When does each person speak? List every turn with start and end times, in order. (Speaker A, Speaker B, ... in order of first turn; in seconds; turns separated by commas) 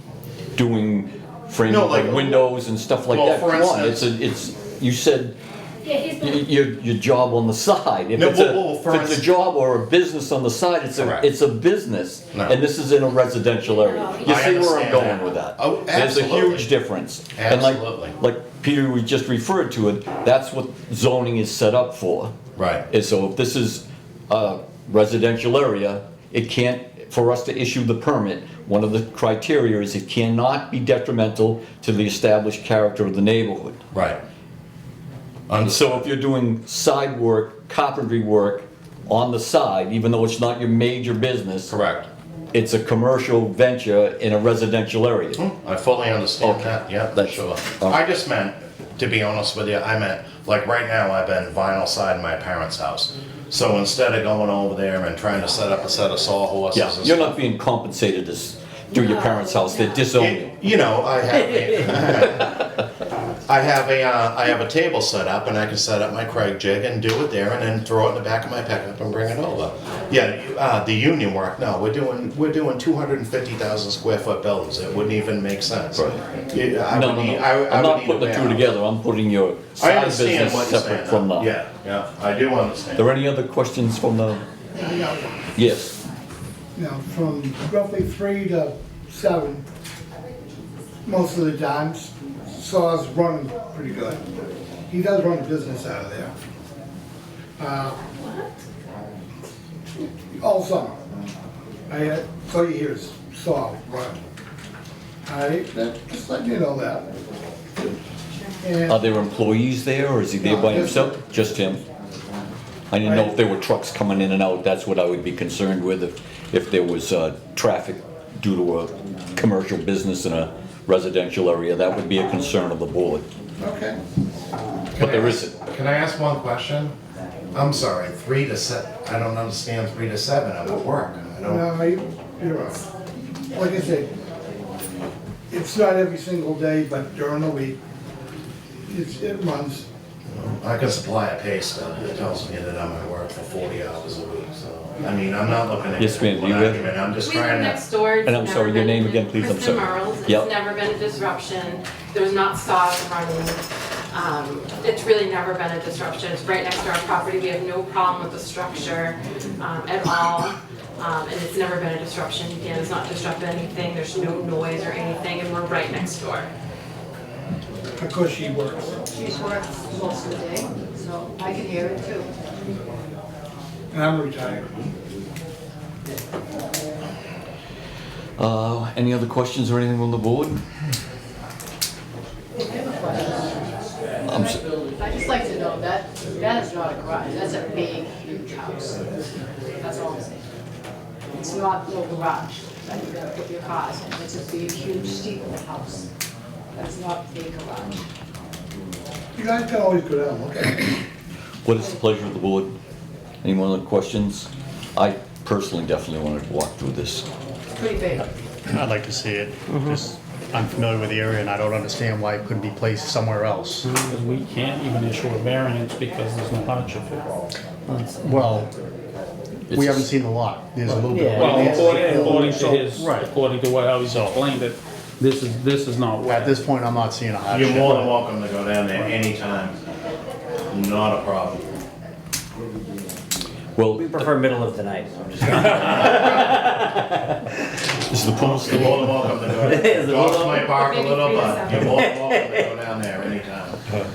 Speaker A: 0.6-5.3, Speaker B: 1.7-2.5, Speaker B: 3.1-4.1, Speaker A: 5.9-22.4, Speaker B: 8.1-9.2, Speaker B: 11.0-11.2, Speaker B: 14.2-16.7, Speaker B: 17.3-18.2, Speaker B: 22.6-22.9, Speaker A: 22.9-33.8, Speaker B: 33.9-34.2, Speaker B: 35.5-36.0, Speaker A: 35.6-41.7, Speaker B: 41.7-42.1, Speaker A: 42.5-45.4, Speaker B: 45.4-57.4, Speaker A: 46.4-48.0, Speaker A: 56.7-60.5, Speaker B: 60.2-62.6, Speaker B: 63.5-78.7, Speaker A: 76.8-81.5, Speaker B: 79.8-83.1, Speaker A: 83.0-84.4, Speaker C: 84.8-85.5, Speaker A: 85.6-86.0, Speaker C: 86.8-89.6, Speaker C: 91.0-94.3, Speaker C: 94.9-96.3, Speaker C: 97.6-98.0, Speaker C: 100.3-101.0, Speaker C: 101.9-104.2, Speaker C: 105.2-107.1, Speaker C: 108.6-109.0, Speaker A: 108.9-111.8, Speaker C: 110.4-111.8, Speaker A: 112.9-123.2, Speaker C: 113.0-113.3, Speaker C: 123.6-124.0, Speaker B: 125.0-126.9, Speaker A: 125.0-125.5, Speaker B: 127.5-131.7, Speaker C: 131.4-132.9, Speaker C: 133.5-134.1, Speaker C: 135.5-137.8, Speaker C: 138.9-139.8, Speaker B: 140.3-147.8, Speaker A: 146.0-146.8, Speaker D: 147.2-166.5, Speaker A: 148.2-150.5, Speaker C: 168.0-168.9, Speaker E: 169.1-172.3, Speaker C: 173.9-174.8, Speaker A: 178.4-180.6, Speaker E: 182.6-183.6, Speaker A: 184.3-184.6, Speaker E: 184.9-189.1, Speaker E: 189.8-190.4, Speaker E: 191.3-196.1, Speaker E: 196.7-198.0, Speaker C: 199.3-201.0, Speaker A: 201.6-202.7, Speaker A: 203.4-207.2, Speaker E: 207.8-208.3, Speaker F: 208.7-213.9, Speaker G: 213.9-217.3, Speaker G: 217.9-218.2, Speaker F: 218.2-218.7, Speaker F: 219.7-223.3, Speaker A: 219.7-220.1, Speaker H: 221.1-221.7, Speaker G: 221.2-226.6, Speaker C: 221.4-221.8, Speaker B: 221.5-222.6, Speaker F: 226.2-228.1, Speaker B: 227.5-229.7, Speaker B: 230.7-231.7, Speaker A: 233.8-234.3, Speaker H: 233.9-237.3, Speaker B: 235.6-236.6, Speaker A: 238.1-239.6, Speaker B: 238.3-243.8, Speaker H: 239.7-242.7